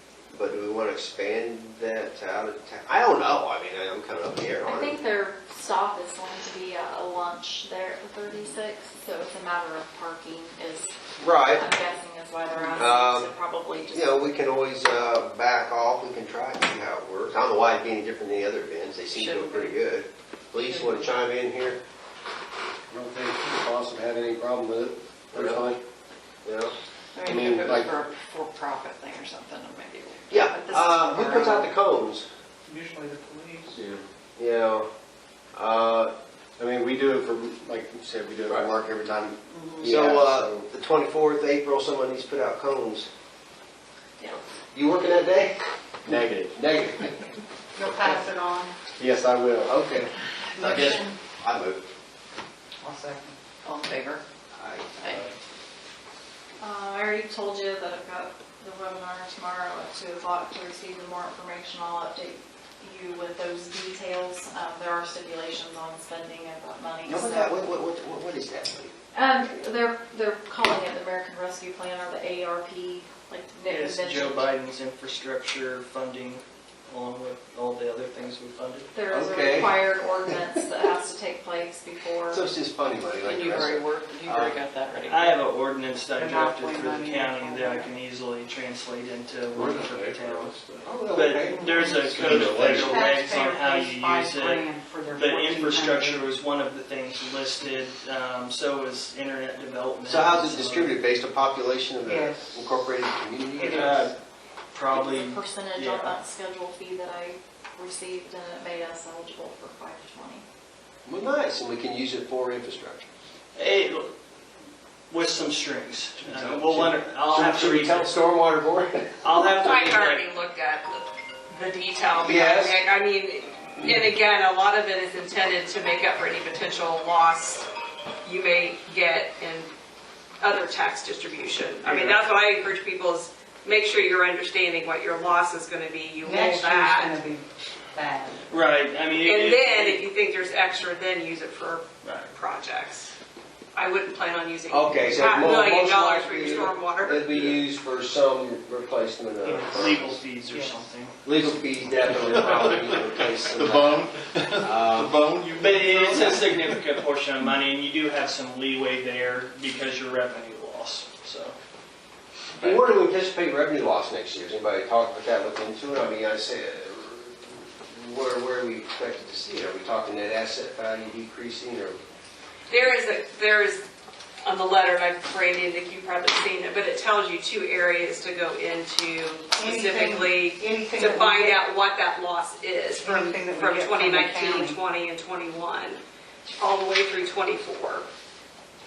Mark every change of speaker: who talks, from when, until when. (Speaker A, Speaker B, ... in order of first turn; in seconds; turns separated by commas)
Speaker A: 0.3-5.0, Speaker B: 4.6-10.9, Speaker A: 11.2-11.7, Speaker B: 11.6-14.3, Speaker C: 12.6-12.9, Speaker A: 12.8-13.3, Speaker A: 13.9-21.8, Speaker C: 19.1-19.8, Speaker C: 20.6-21.0, Speaker D: 22.9-25.8, Speaker A: 25.3-25.7, Speaker A: 26.4-26.8, Speaker C: 27.1-31.7, Speaker D: 27.3-27.9, Speaker A: 27.4-27.9, Speaker A: 30.3-32.3, Speaker C: 32.7-33.7, Speaker D: 33.7-34.0, Speaker A: 34.4-34.9, Speaker A: 35.5-36.1, Speaker D: 36.6-40.7, Speaker A: 39.8-43.1, Speaker A: 44.7-45.6, Speaker D: 46.1-46.6, Speaker A: 46.5-47.3, Speaker C: 47.8-48.7, Speaker D: 49.0-49.8, Speaker A: 49.7-51.9, Speaker C: 50.6-51.1, Speaker C: 52.8-54.2, Speaker A: 54.6-55.2, Speaker B: 56.6-67.7, Speaker A: 67.0-68.9, Speaker B: 69.1-74.5, Speaker E: 73.7-78.9, Speaker B: 78.9-82.5, Speaker A: 79.1-80.0, Speaker A: 82.3-84.6, Speaker C: 83.2-85.4, Speaker E: 85.0-90.6, Speaker C: 86.2-87.9, Speaker F: 87.0-87.6, Speaker G: 89.5-90.9, Speaker A: 90.8-92.3, Speaker E: 91.1-101.0, Speaker C: 91.6-91.9, Speaker G: 92.0-93.1, Speaker C: 92.8-96.3, Speaker F: 95.5-95.9, Speaker A: 100.0-104.1, Speaker F: 102.1-102.7, Speaker C: 103.6-103.9, Speaker E: 103.8-104.2, Speaker E: 104.7-106.2, Speaker B: 104.9-110.5, Speaker A: 111.0-113.1, Speaker E: 113.5-114.1, Speaker E: 115.1-118.2, Speaker A: 116.3-119.1, Speaker E: 119.2-120.2, Speaker F: 119.7-127.7, Speaker A: 122.2-122.8, Speaker F: 128.2-129.7, Speaker F: 130.4-137.1, Speaker E: 131.8-132.2, Speaker C: 136.2-138.4, Speaker E: 138.5-140.0, Speaker F: 139.3-143.1, Speaker E: 142.0-142.3, Speaker F: 143.8-147.5, Speaker A: 144.7-150.2, Speaker C: 149.4-149.8, Speaker E: 149.8-151.2, Speaker C: 150.5-150.9, Speaker A: 151.2-155.2, Speaker G: 152.1-156.9, Speaker E: 155.6-161.6, Speaker A: 162.6-172.0, Speaker G: 162.6-162.9, Speaker F: 172.7-173.8, Speaker F: 174.4-186.0, Speaker C: 179.5-181.6, Speaker C: 183.1-184.6, Speaker F: 186.6-188.1